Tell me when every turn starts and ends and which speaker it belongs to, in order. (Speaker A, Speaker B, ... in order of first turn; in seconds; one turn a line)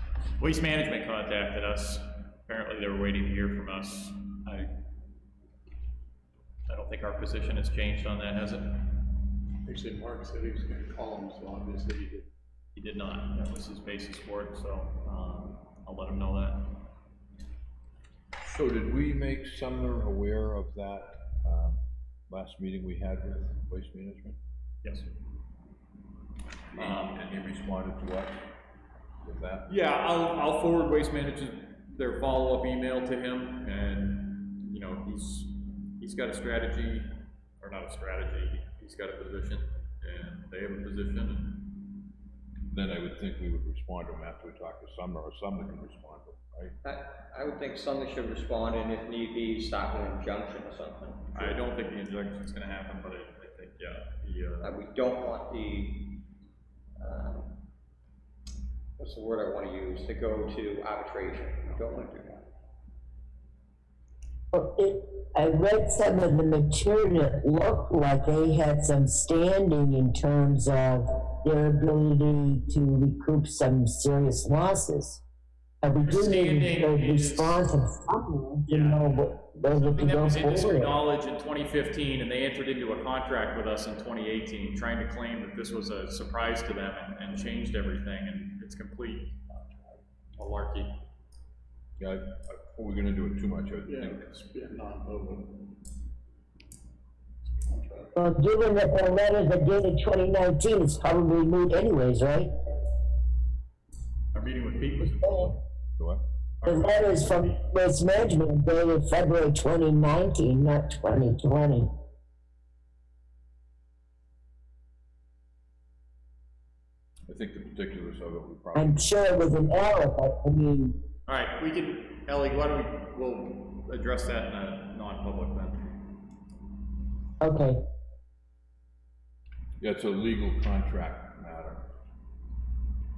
Speaker A: 0.4-4.8
Speaker A: 6.7-9.1
Speaker B: 9.7-12.3
Speaker A: 12.7-16.9
Speaker C: 18.4-24.4
Speaker A: 24.8-25.1
Speaker C: 26.7-28.4
Speaker A: 26.8-27.3
Speaker C: 29.2-29.7
Speaker A: 29.7-41.8
Speaker C: 42.7-46.8
Speaker D: 46.8-51.6
Speaker A: 51.3-54.8
Speaker D: 54.6-56.2
Speaker D: 57.0-57.6
Speaker D: 59.0-62.5
Speaker E: 64.5-75.2
Speaker E: 75.8-80.9
Speaker A: 76.0-77.6
Speaker A: 78.7-89.6
Speaker A: 90.4-91.0
Speaker C: 92.0-94.2
Speaker B: 93.9-95.6
Speaker B: 97.7-98.1
Speaker E: 98.2-102.5
Speaker A: 104.3-105.6
Speaker C: 106.0-106.2
Speaker A: 106.6-107.6
Speaker E: 106.6-111.9
Speaker C: 117.3-119.1
Speaker E: 118.7-121.0
Speaker A: 121.3-126.0
Speaker E: 127.4-127.8
Speaker C: 129.8-131.9